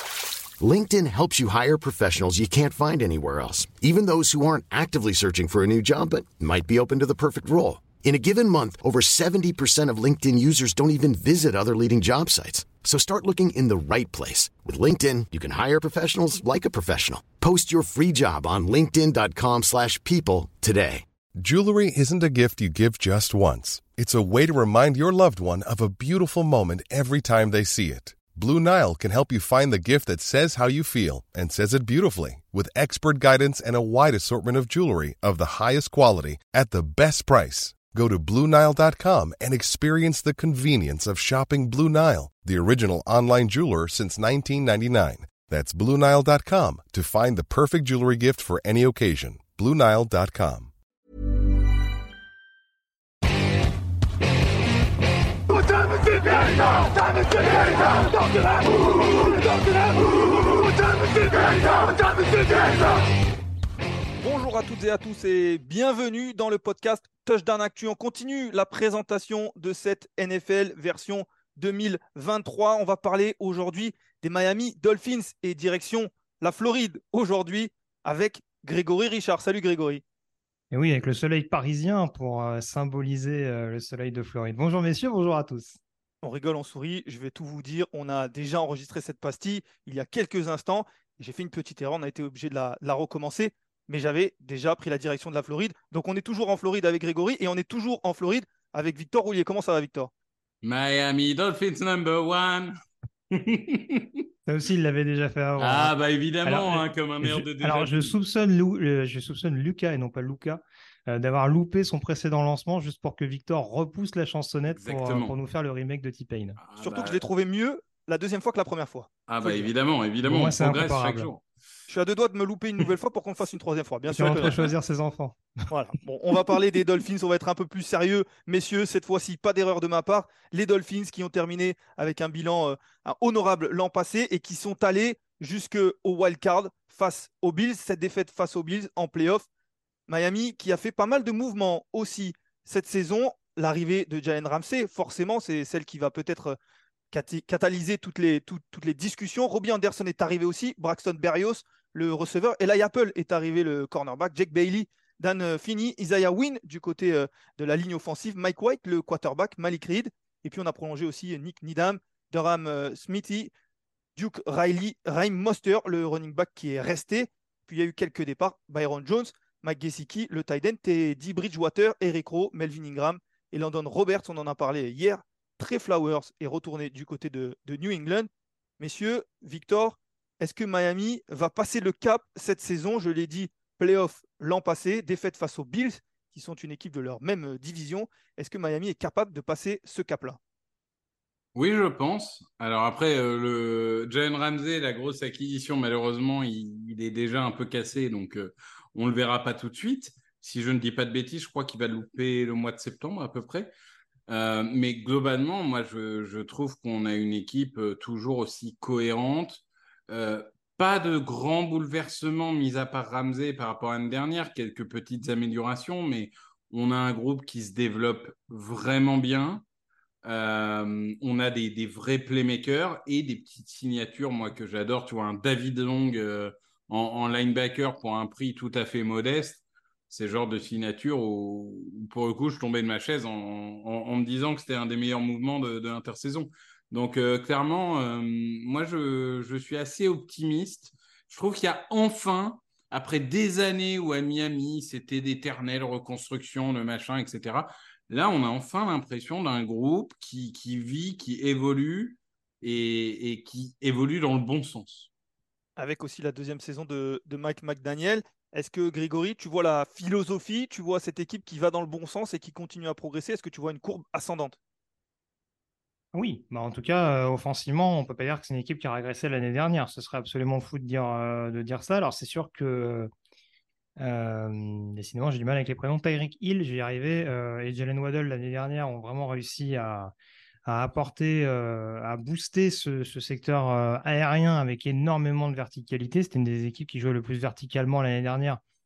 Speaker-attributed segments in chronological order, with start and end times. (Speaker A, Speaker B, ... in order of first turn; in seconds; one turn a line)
Speaker A: 0.6-21.0
Speaker B: 21.4-50.7
Speaker C: 55.5-62.8
Speaker C: 64.2-80.0
Speaker D: 80.7-85.8
Speaker C: 86.2-100.1
Speaker E: 100.6-102.7
Speaker E: 103.3-104.2
Speaker D: 104.5-116.6
Speaker E: 105.6-108.2
Speaker E: 114.7-115.3
Speaker E: 116.6-117.2
Speaker C: 116.8-119.6
Speaker E: 119.3-121.4
Speaker D: 120.2-121.3
Speaker C: 121.9-124.6
Speaker D: 124.1-125.5
Speaker C: 125.7-139.5
Speaker C: 140.1-146.6
Speaker C: 147.1-163.5
Speaker C: 164.2-190.4
Speaker E: 191.6-203.7
Speaker E: 204.3-219.6
Speaker E: 220.2-255.1
Speaker C: 255.8-264.6
Speaker D: 266.1-273.1
Speaker D: 274.0-280.1
Speaker D: 280.6-288.6